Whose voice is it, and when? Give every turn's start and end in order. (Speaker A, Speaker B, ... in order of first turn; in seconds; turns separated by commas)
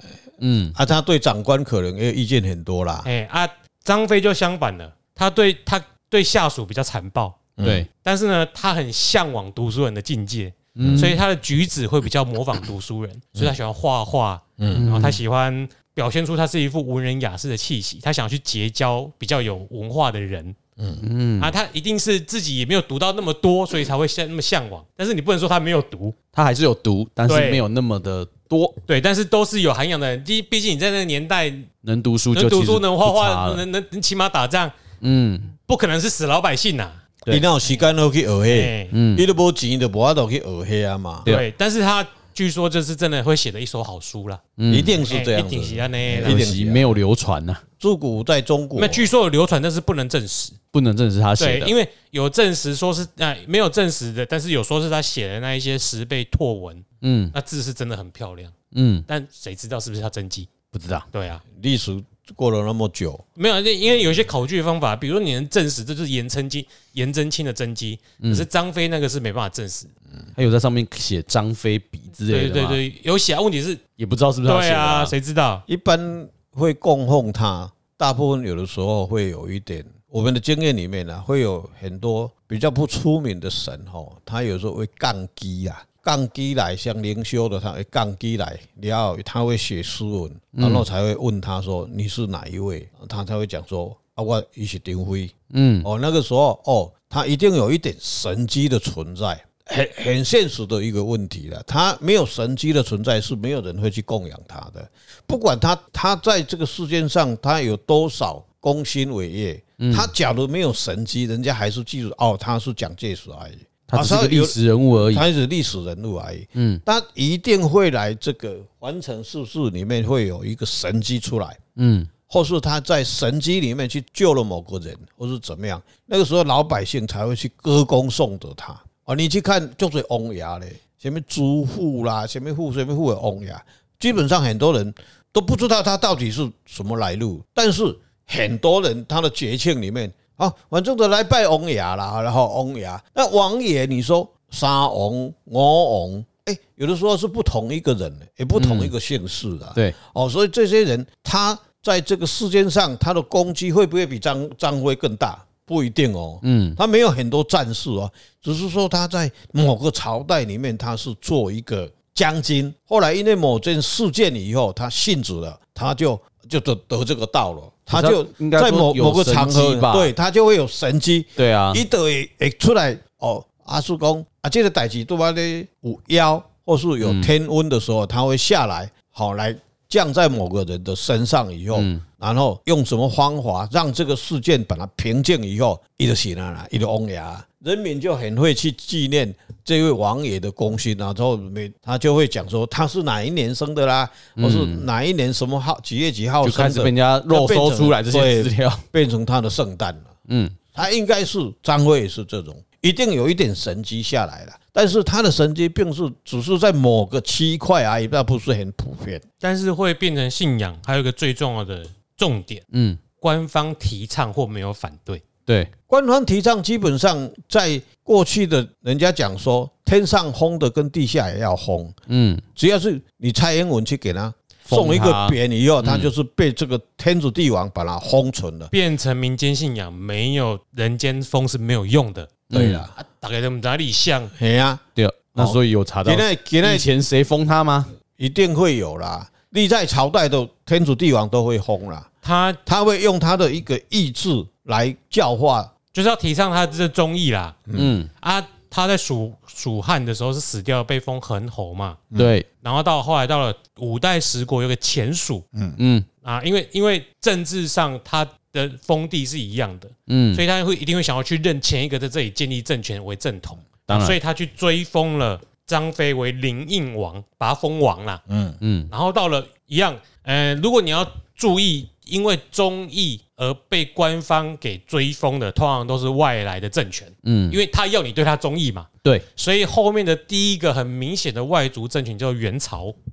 Speaker A: 0.4-0.8, Speaker B: 0.7-3.1, Speaker C: 3.0-7.4, Speaker B: 7.6-7.8, Speaker A: 7.6-7.9, Speaker C: 8.0-20.6, Speaker A: 10.8-11.2, Speaker B: 10.8-11.1, Speaker B: 14.6-14.9, Speaker A: 14.7-15.2, Speaker B: 20.8-21.0, Speaker A: 21.0-21.5, Speaker C: 21.4-26.1, Speaker A: 26.3-28.8, Speaker C: 27.3-27.6, Speaker C: 28.9-31.7, Speaker A: 31.8-33.6, Speaker C: 32.3-34.8, Speaker A: 35.0-35.5, Speaker C: 35.6-37.0, Speaker B: 37.3-41.3, Speaker C: 38.5-38.9, Speaker A: 38.9-39.2, Speaker C: 41.2-44.4, Speaker A: 44.6-45.0, Speaker B: 44.7-47.0, Speaker C: 45.0-46.4, Speaker A: 46.2-47.6, Speaker B: 47.8-49.1, Speaker C: 48.8-50.6, Speaker A: 50.7-51.7, Speaker C: 51.4-58.5, Speaker A: 57.0-57.3, Speaker A: 58.7-59.1, Speaker C: 59.1-60.5, Speaker A: 60.7-61.1, Speaker C: 61.1-61.4, Speaker B: 61.5-63.2, Speaker C: 63.4-69.9, Speaker A: 68.2-68.5, Speaker A: 70.3-72.8, Speaker C: 72.3-73.8, Speaker A: 74.0-75.1, Speaker C: 74.4-75.6, Speaker B: 75.7-121.6, Speaker A: 90.5-90.9, Speaker A: 95.5-95.9, Speaker A: 109.8-110.1, Speaker A: 113.9-115.2, Speaker A: 116.5-116.8, Speaker A: 121.8-122.1, Speaker B: 122.3-200.1, Speaker A: 148.5-148.9, Speaker A: 156.4-156.8, Speaker A: 167.9-170.1, Speaker A: 171.4-171.8, Speaker A: 177.0-177.3, Speaker A: 181.7-182.0, Speaker A: 194.4-194.9, Speaker A: 196.4-198.8, Speaker A: 200.3-200.6, Speaker B: 200.7-209.2, Speaker C: 209.4-212.6, Speaker A: 212.7-213.0, Speaker C: 213.2-215.2, Speaker A: 215.5-215.7, Speaker B: 215.9-221.9, Speaker A: 222.1-222.4, Speaker B: 222.6-228.7, Speaker A: 224.7-226.1, Speaker C: 228.7-232.3, Speaker A: 232.5-232.9, Speaker B: 232.5-232.9, Speaker C: 233.0-234.3, Speaker B: 234.4-234.8, Speaker A: 234.9-237.9, Speaker B: 235.3-236.9, Speaker B: 238.2-242.1, Speaker C: 242.2-242.6, Speaker B: 242.7-245.7, Speaker C: 245.9-247.6, Speaker B: 247.7-248.0, Speaker A: 247.8-248.1, Speaker C: 248.2-252.0, Speaker A: 252.2-252.4, Speaker C: 252.6-255.4, Speaker B: 255.5-255.8, Speaker A: 255.8-256.1, Speaker C: 256.2-268.2, Speaker A: 260.1-260.4, Speaker A: 263.9-264.2, Speaker B: 268.3-268.6, Speaker A: 268.6-268.9, Speaker C: 268.9-282.9, Speaker A: 277.2-277.6